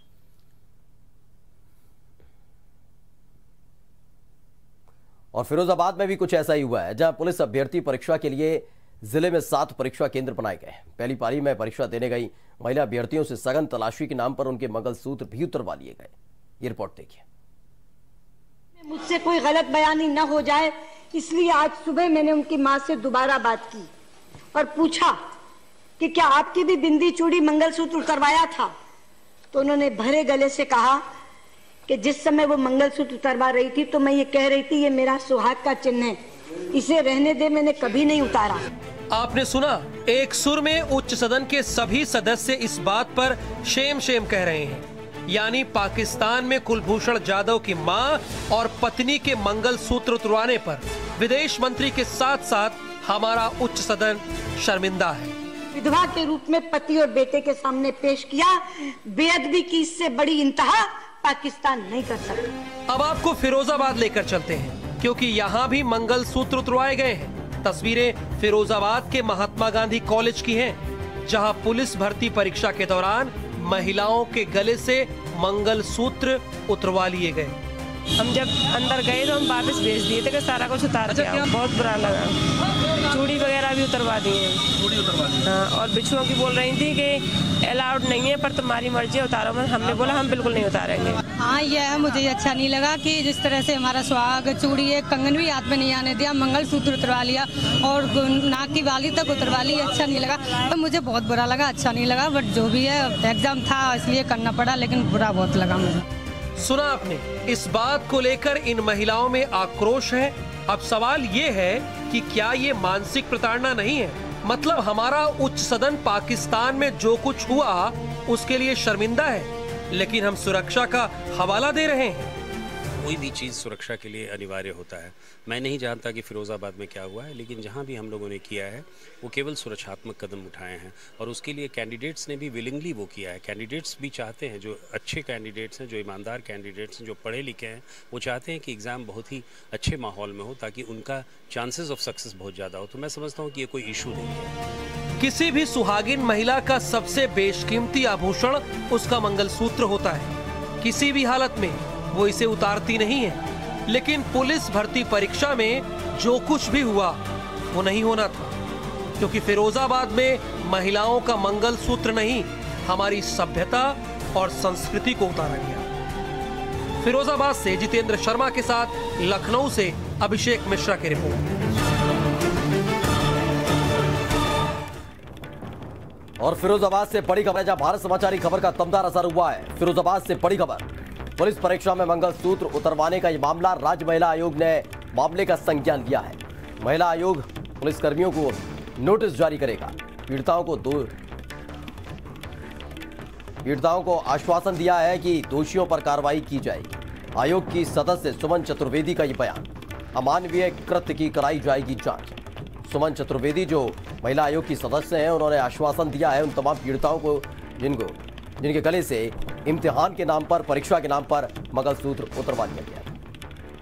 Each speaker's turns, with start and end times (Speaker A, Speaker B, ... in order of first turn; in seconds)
Speaker A: 5.3-17.2, 176.4-191.1, 193.6-213.2
Speaker B: 18.8-23.9, 24.5-25.1, 26.0-28.7, 29.5-31.0, 31.9-36.2, 36.7-38.6, 55.7-62.5
Speaker C: 39.1-55.3, 62.9-77.6, 106.6-122.3, 145.2-157.2, 157.7-158.6, 159.2-165.9, 167.0-171.4
Speaker D: 78.2-91.2
Speaker E: 91.3-106.0
Speaker F: 123.0-144.5